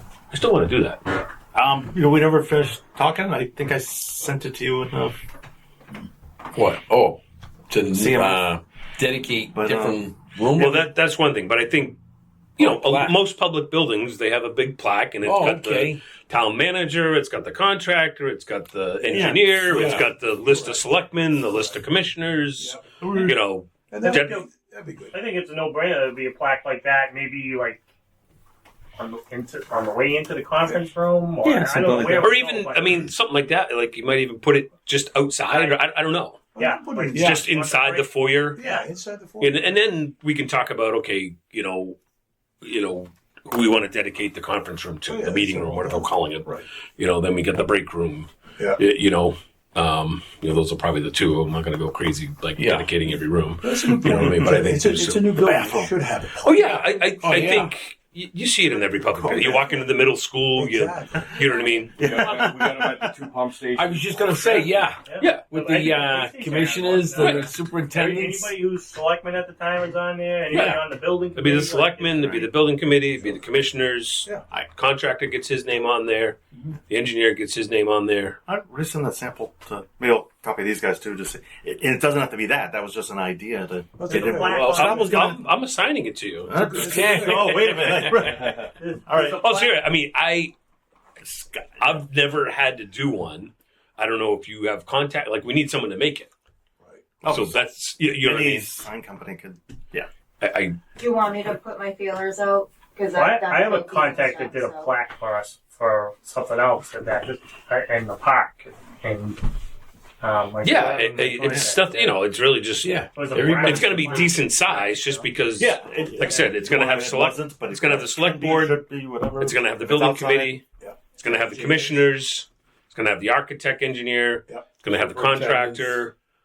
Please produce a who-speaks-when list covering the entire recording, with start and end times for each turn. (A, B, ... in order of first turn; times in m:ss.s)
0:00.3-0:01.0 A
0:01.5-0:05.2 B
0:06.5-0:10.9 C
0:07.9-0:08.5 B
0:09.5-0:10.0 B
0:10.6-0:12.0 A
0:12.6-0:24.4 A
0:12.6-0:13.2 C
0:15.2-0:16.0 C
0:19.0-0:21.8 D
0:19.1-0:20.1 B
0:22.6-0:23.4 D
0:23.0-0:23.4 B
0:23.9-0:25.2 D
0:24.0-0:24.5 E
0:25.1-0:27.8 E
0:29.0-0:33.0 E
0:31.4-0:32.3 B
0:32.1-0:36.4 A
0:35.4-0:35.8 E
0:36.6-0:37.4 D
0:36.6-0:38.8 E
0:37.1-0:38.6 A
0:38.6-0:39.8 D
0:39.4-0:42.0 A
0:42.6-0:55.8 A
0:45.1-0:46.7 D
0:52.6-0:52.9 C
0:53.6-0:57.0 D
0:54.1-0:54.4 B
0:55.4-0:55.9 B
0:56.4-1:02.5 A
0:57.2-0:57.7 C
0:59.0-1:00.0 D
1:00.6-1:01.6 D
1:02.0-1:04.7 F
1:02.0-1:03.1 B
1:03.8-1:08.5 C
1:05.0-1:12.1 E
1:05.2-1:05.5 A
1:07.2-1:07.5 A
1:10.5-1:10.8 C
1:11.4-1:18.4 A
1:12.0-1:12.5 B
1:18.5-1:25.5 B
1:24.0-1:25.1 D
1:24.2-1:25.4 E
1:24.5-1:28.0 A
1:26.5-1:29.5 B
1:26.5-1:27.4 D
1:26.8-1:28.0 C
1:28.2-1:29.7 E
1:29.4-1:30.5 A
1:31.2-1:36.3 A
1:37.2-1:37.6 B
1:37.3-1:38.8 A
1:38.2-1:40.1 B
1:40.4-1:40.8 A
1:41.0-1:44.9 G
1:43.0-1:49.4 E
1:50.2-1:52.2 E
1:50.6-1:58.8 A
1:51.4-1:51.7 B
1:52.8-1:54.2 C
1:53.1-1:55.3 E
1:55.6-2:00.6 B
1:59.4-2:00.6 A
2:00.8-2:02.0 D
2:01.2-2:06.2 A
2:04.9-2:06.1 C